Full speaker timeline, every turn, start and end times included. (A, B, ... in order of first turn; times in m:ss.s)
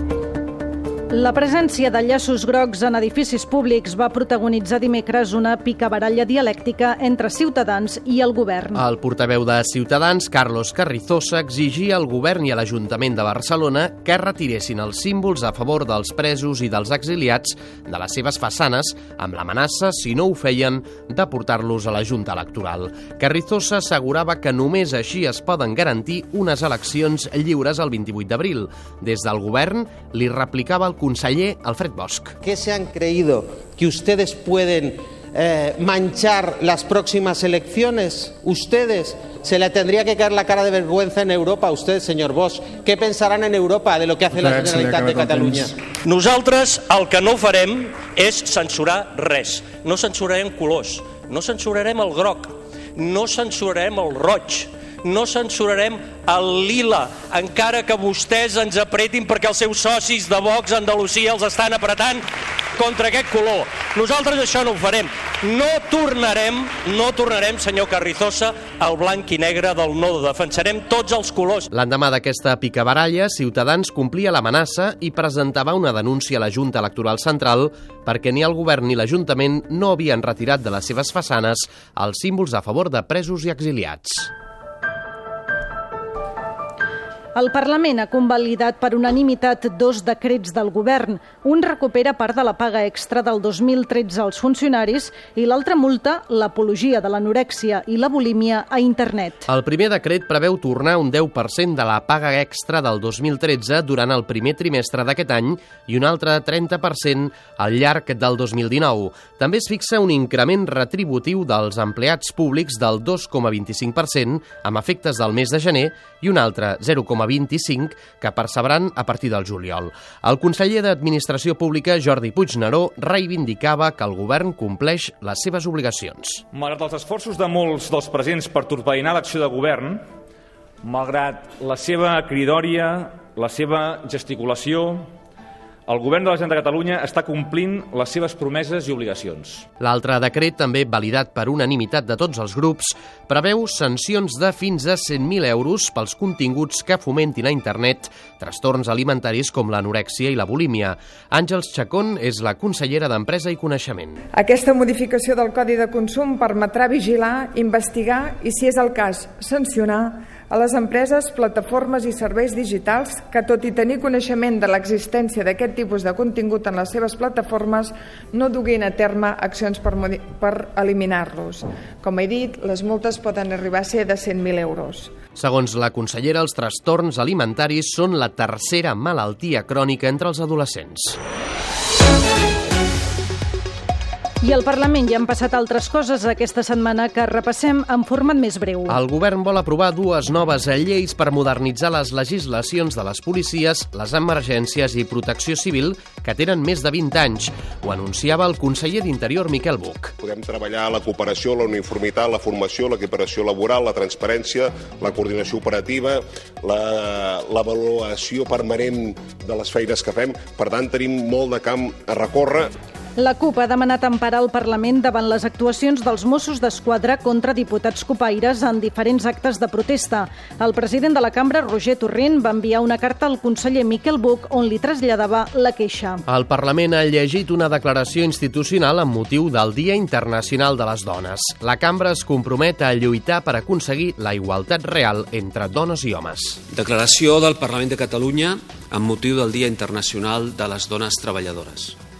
0:01.1-0:08.8 A
0:08.7-0:32.3 B
0:32.4-0:45.8 C
0:46.0-1:02.2 D
1:02.8-1:11.7 D
1:11.7-1:24.3 B
1:27.3-1:39.5 A
1:39.5-2:06.4 B
2:06.6-2:09.9 E
2:10.9-2:14.9 E
2:15.9-2:19.6 E
2:19.8-2:34.2 B
2:34.3-2:55.1 F
2:55.4-3:01.2 B
3:04.4-3:09.0 A
3:08.9-3:20.1 B
3:20.2-3:32.7 G
3:33.2-3:46.2 A
3:46.3-3:56.6 B
3:56.8-4:01.9 H